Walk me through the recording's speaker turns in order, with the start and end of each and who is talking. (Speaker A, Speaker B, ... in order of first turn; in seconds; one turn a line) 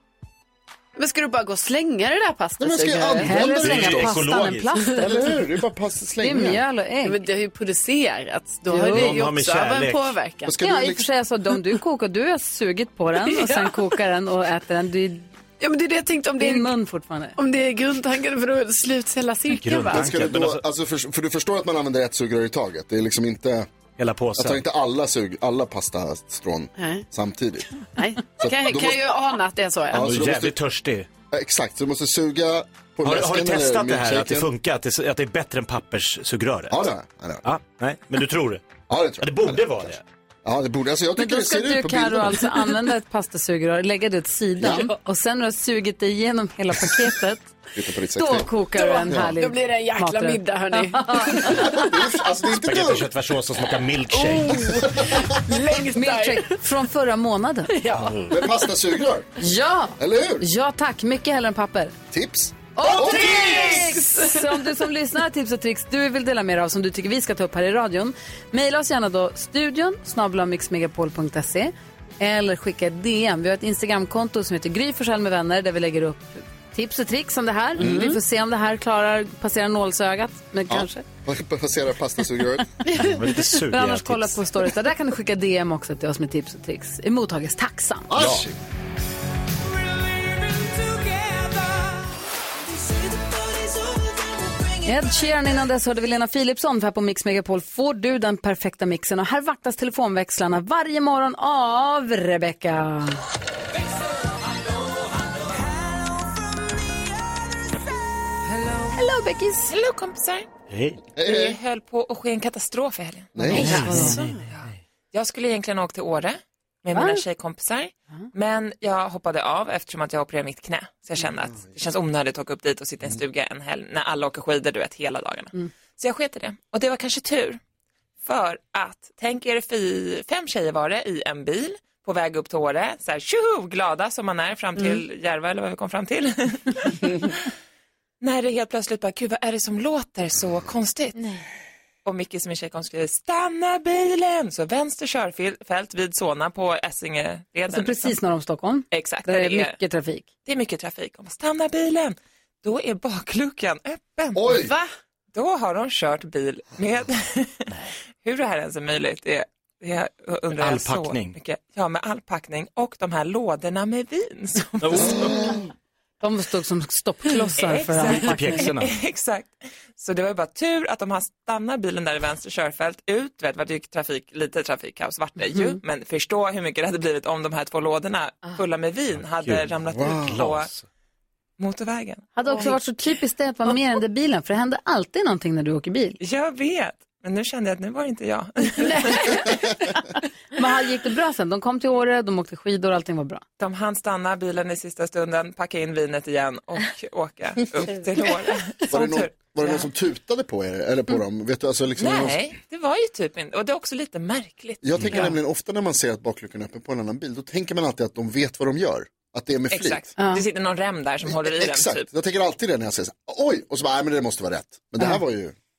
Speaker A: 1.0-3.5
Speaker B: 2.6-4.2
Speaker C: 3.2-5.1
Speaker D: 3.4-4.8
Speaker B: 5.0-6.6
Speaker C: 6.2-7.2
Speaker A: 7.0-10.6
Speaker C: 8.7-9.2
Speaker D: 8.9-10.2
Speaker B: 10.5-11.1
Speaker C: 10.6-15.3
Speaker A: 13.3-13.9
Speaker A: 15.6-16.8
Speaker C: 16.4-17.4
Speaker A: 17.4-20.2
Speaker D: 19.5-20.6
Speaker B: 19.9-23.7
Speaker D: 24.0-24.6
Speaker B: 24.4-27.7
Speaker A: 26.8-27.1
Speaker A: 27.9-30.1
Speaker B: 28.4-29.1
Speaker B: 29.9-30.6
Speaker D: 29.9-31.1
Speaker B: 31.3-34.5
Speaker D: 33.0-36.8
Speaker B: 36.7-37.4
Speaker D: 37.5-38.7
Speaker B: 38.9-42.7
Speaker D: 39.2-40.0
Speaker C: 41.2-47.5
Speaker B: 44.6-44.9
Speaker B: 47.8-48.5
Speaker C: 48.2-51.9
Speaker A: 48.8-51.8
Speaker B: 49.1-49.3
Speaker B: 51.4-53.1
Speaker D: 52.5-54.9
Speaker A: 54.1-56.6
Speaker C: 55.9-57.8
Speaker A: 57.7-58.2
Speaker B: 58.3-59.3
Speaker C: 59.4-62.0
Speaker B: 60.0-60.5
Speaker B: 62.1-63.6
Speaker C: 62.8-81.1
Speaker A: 63.0-64.6
Speaker B: 77.8-78.1
Speaker A: 77.8-78.2
Speaker B: 80.7-82.7
Speaker D: 82.9-84.4
Speaker C: 83.6-88.1
Speaker B: 88.1-88.5
Speaker D: 88.2-88.5
Speaker C: 94.8-103.2
Speaker C: 108.9-109.7
Speaker E: 109.7-110.5
Speaker D: 110.7-111.0
Speaker B: 111.1-111.6
Speaker E: 111.2-113.6
Speaker B: 113.3-113.9
Speaker D: 113.5-114.8
Speaker A: 113.5-114.4
Speaker E: 114.4-127.6
Speaker C: 116.9-117.2
Speaker E: 128.2-137.5
Speaker E: 138.2-141.2
Speaker E: 142.1-148.1
Speaker C: 147.7-150.3
Speaker E: 148.9-149.8
Speaker E: 150.5-154.7
Speaker B: 154.3-154.7
Speaker A: 154.6-154.9
Speaker E: 155.3-165.4
Speaker D: 160.6-161.4
Speaker D: 164.8-165.6
Speaker B: 165.2-165.6
Speaker C: 166.2-168.7
Speaker E: 167.6-180.7
Speaker D: 168.0-168.9
Speaker C: 175.4-175.8
Speaker D: 179.2-180.8
Speaker B: 179.9-180.4
Speaker E: 181.6-182.3
Speaker C: 182.4-186.2
Speaker E: 186.2-189.7
Speaker A: 188.8-189.6
Speaker C: 190.6-193.4
Speaker E: 193.6-199.9
Speaker B: 198.9-202.4
Speaker E: 202.0-204.8
Speaker B: 204.8-210.1
Speaker E: 209.7-212.1
Speaker C: 210.2-210.4
Speaker B: 211.2-215.6